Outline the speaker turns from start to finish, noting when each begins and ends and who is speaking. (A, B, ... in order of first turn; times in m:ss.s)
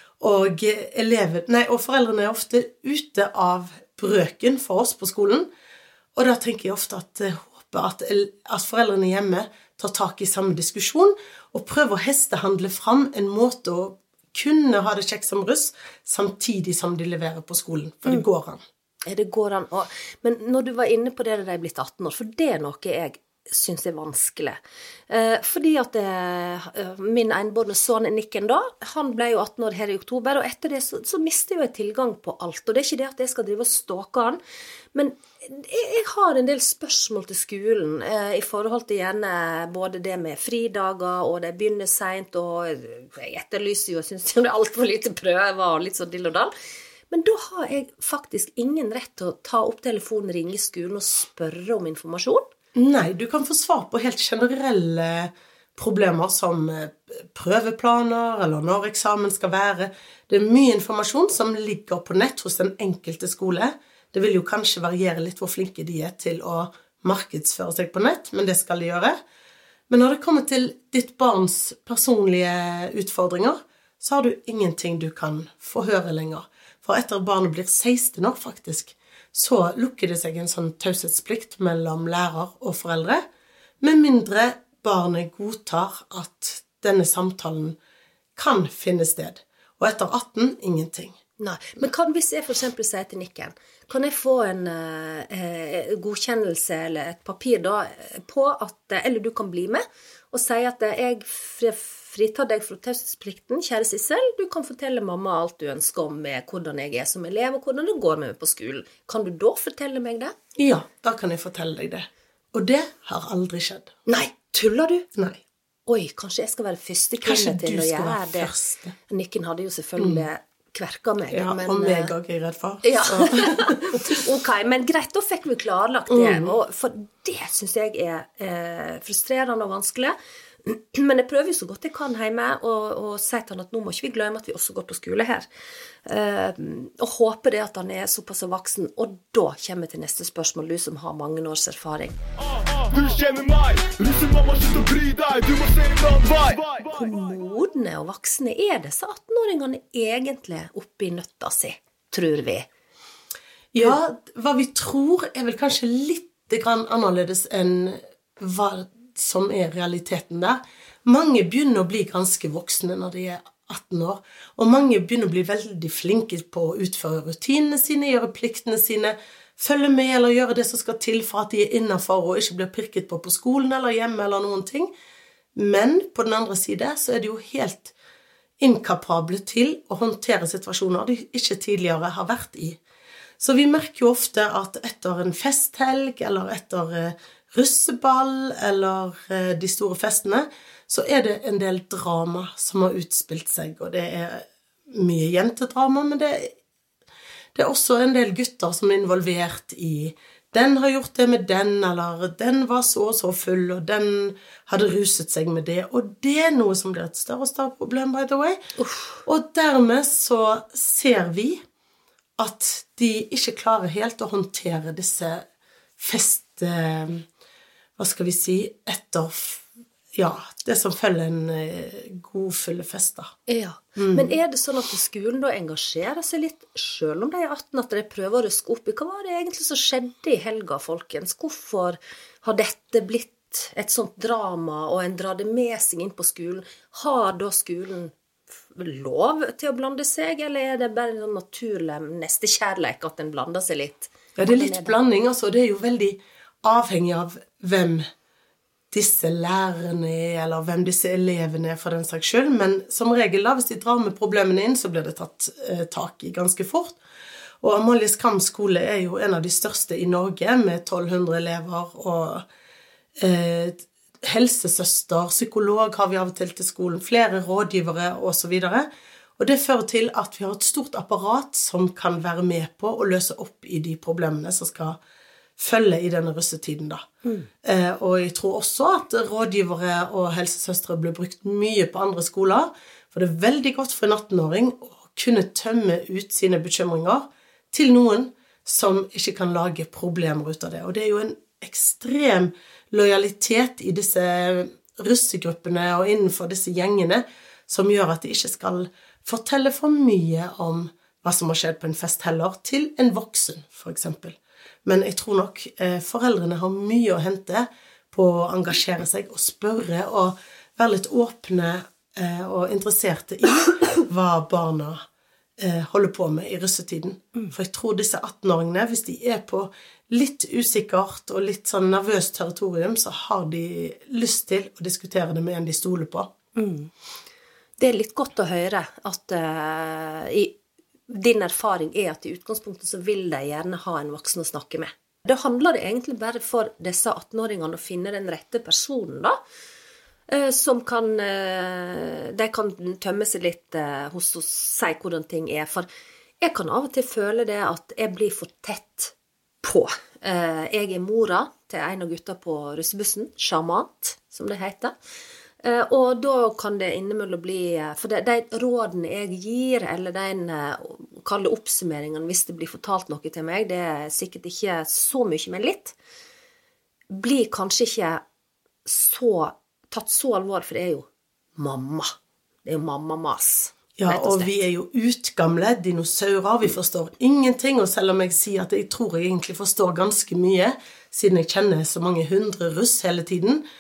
0:00.2-0:05.5 A
0:06.2-0:18.6 A
0:19.1-0:24.6 B
0:25.1-0:34.4 B
0:34.9-0:46.5 B
0:47.1-0:52.5 B
0:52.8-1:09.2 A
1:09.9-1:23.2 A
1:23.8-1:27.8 A
1:28.4-1:31.2 A
1:31.4-1:50.3 B
1:50.6-1:54.0 A
1:54.1-1:55.1 B
1:55.2-1:55.4 A
1:55.9-1:58.5 B
1:57.2-1:59.0 A
1:59.1-2:02.1 B
2:00.0-2:00.2 A
2:01.3-2:04.2 A
2:02.8-2:15.5 B
2:06.1-2:06.5 A
2:16.1-2:22.2 B
2:22.4-2:27.0 C
2:26.8-2:32.7 B
2:33.7-2:54.9 A
2:55.6-2:57.9 A
2:58.6-3:02.8 A
3:03.4-3:16.5 A
3:17.6-3:28.6 A
3:28.8-3:29.2 B
3:29.2-3:31.6 A
3:32.4-3:35.5 A
3:36.0-3:37.2 A
3:38.0-3:43.3 A
3:43.5-3:58.1 B
3:44.0-3:44.4 A
3:58.7-4:05.0 B
4:04.4-4:08.1 A
4:08.9-4:17.0 A
4:17.6-4:22.5 A
4:23.2-4:35.0 A
4:35.6-4:37.1 A
4:37.6-5:15.0 A
5:15.6-5:26.3 A
5:26.6-5:26.9 B
5:27.8-5:30.6 B
5:31.1-5:39.4 B
5:40.3-5:45.9 B
5:46.4-5:54.9 B
5:55.6-6:06.0 B
6:07.1-6:08.2 B
6:08.9-6:11.1 B
6:11.6-6:12.1 B
6:12.6-6:14.5 B
6:14.0-6:23.6 A